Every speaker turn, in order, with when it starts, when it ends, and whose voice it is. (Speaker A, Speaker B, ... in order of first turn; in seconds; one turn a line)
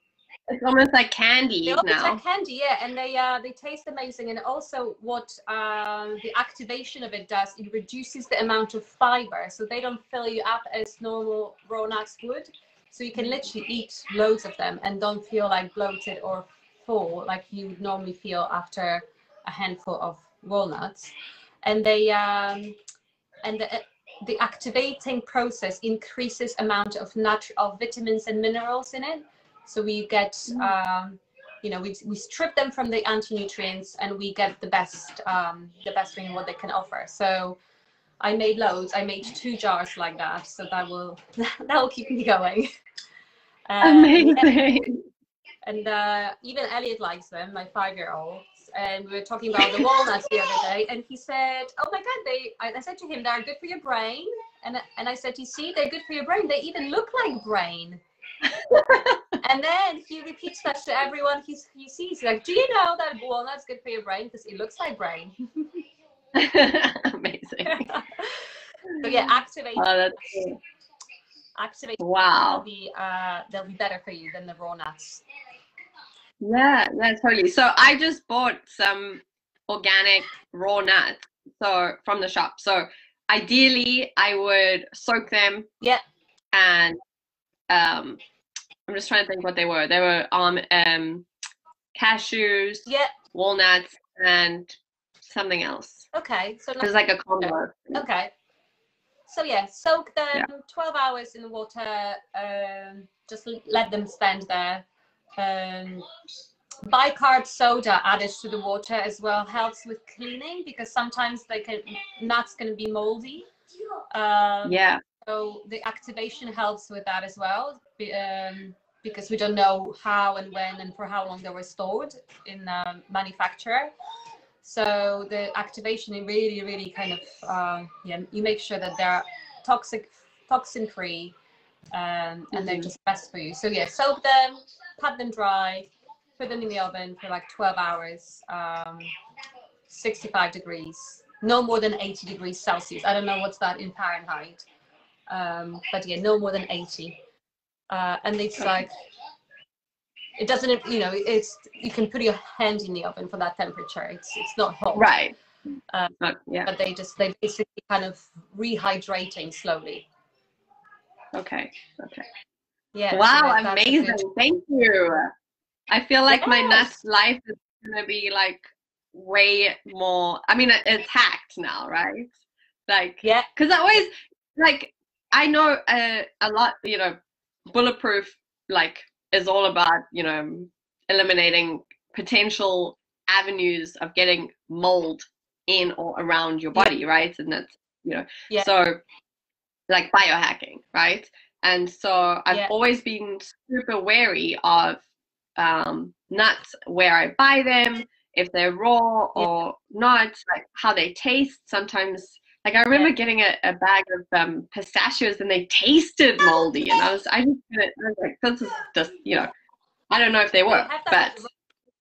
Speaker A: 0.5-2.2
Speaker B: 1.6-22.8
Speaker B: 23.4-37.6
Speaker B: 38.2-42.7
Speaker B: 43.7-44.6
Speaker A: 43.8-45.0
Speaker B: 45.6-58.0
Speaker A: 58.4-59.4
Speaker B: 59.4-65.8
Speaker A: 66.3-67.9
Speaker B: 67.7-68.4
Speaker A: 68.9-70.6
Speaker B: 69.0-70.4
Speaker B: 71.6-75.2
Speaker A: 72.0-72.6
Speaker A: 76.4-85.7
Speaker A: 86.5-87.0
Speaker A: 87.7-88.2
Speaker A: 88.9-91.2
Speaker A: 92.0-96.1
Speaker B: 92.9-93.1
Speaker B: 96.1-96.9
Speaker A: 96.8-98.0
Speaker B: 97.4-98.3
Speaker B: 99.3-104.8
Speaker B: 105.4-106.1
Speaker B: 106.8-113.5
Speaker B: 114.1-123.9
Speaker A: 114.6-115.0
Speaker B: 124.6-131.3
Speaker B: 131.9-139.1
Speaker A: 132.5-132.9
Speaker B: 139.9-144.7
Speaker B: 145.3-147.2
Speaker B: 147.9-148.9
Speaker B: 150.4-155.1
Speaker A: 154.9-155.3
Speaker A: 156.2-156.7
Speaker B: 156.6-160.1
Speaker A: 161.3-162.3
Speaker B: 162.9-164.2
Speaker A: 163.1-165.3
Speaker A: 165.9-172.3
Speaker B: 166.3-166.9
Speaker A: 172.9-177.2
Speaker B: 173.2-173.5
Speaker A: 177.7-189.0
Speaker A: 189.9-195.0
Speaker A: 195.6-209.5
Speaker A: 210.1-211.4
Speaker B: 210.7-211.5